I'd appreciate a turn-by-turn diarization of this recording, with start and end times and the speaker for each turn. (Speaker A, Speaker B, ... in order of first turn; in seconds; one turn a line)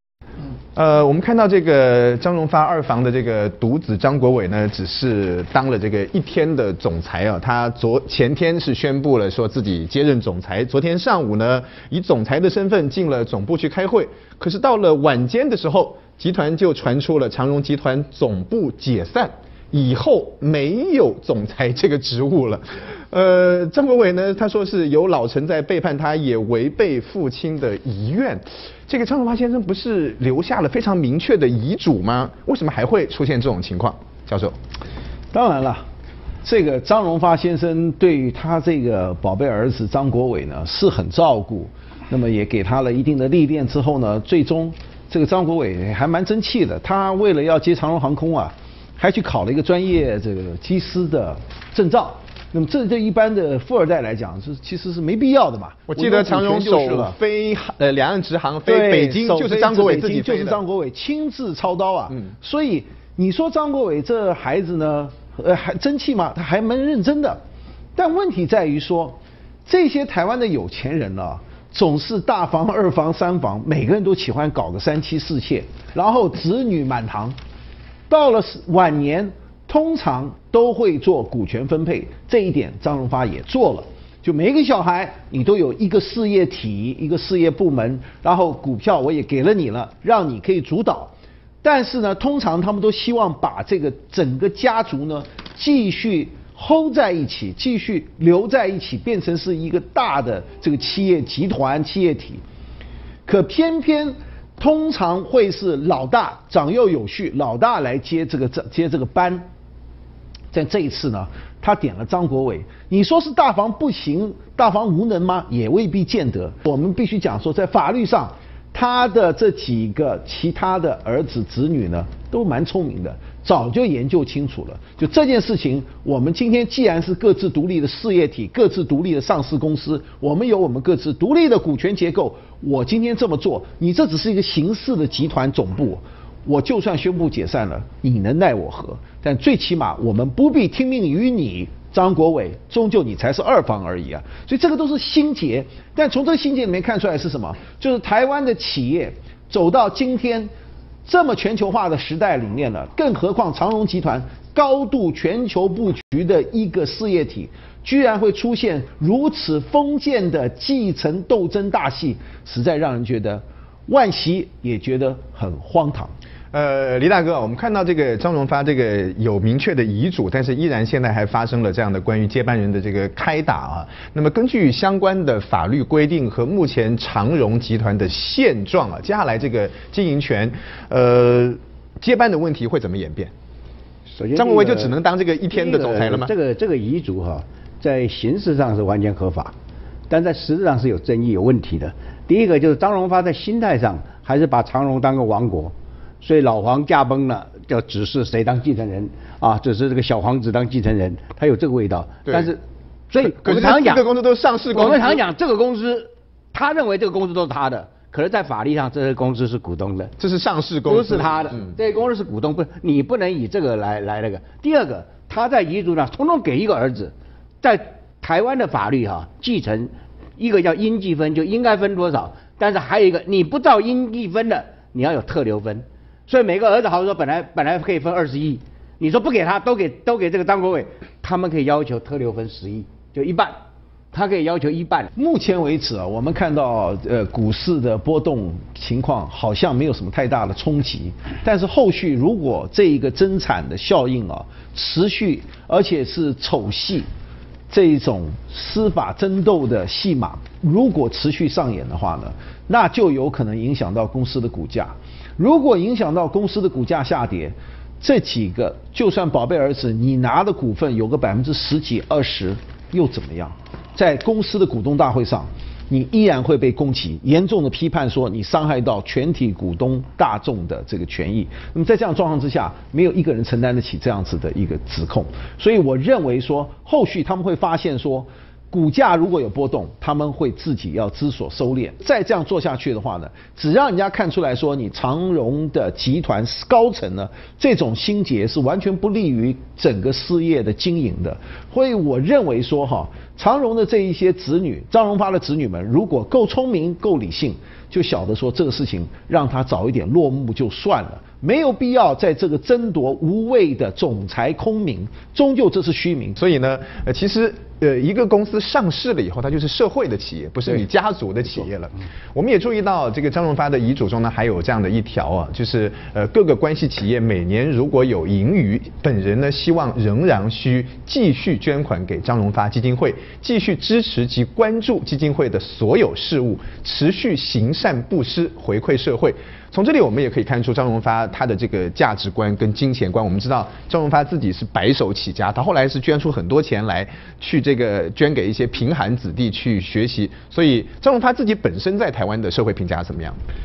Speaker A: 0.7-34.5
Speaker B: 35.3-35.9
Speaker B: 36.4-57.1
Speaker A: 55.9-60.6
Speaker B: 58.6-67.4
Speaker B: 68.0-77.4
Speaker B: 78.1-102.4
Speaker B: 103.2-109.5
Speaker B: 110.5-150.5
Speaker B: 151.0-166.1
Speaker A: 166.5-183.3
Speaker C: 184.1-184.9
Speaker A: 184.3-186.3
Speaker C: 185.5-189.5
Speaker C: 190.1-204.1
Speaker A: 202.3-202.5
Speaker A: 203.2-205.2
Speaker C: 204.7-210.1
Speaker A: 210.2-211.7
Speaker C: 210.9-233.6
Speaker C: 234.1-235.1
Speaker B: 235.2-247.1
Speaker B: 247.7-306.4
Speaker A: 306.4-343.4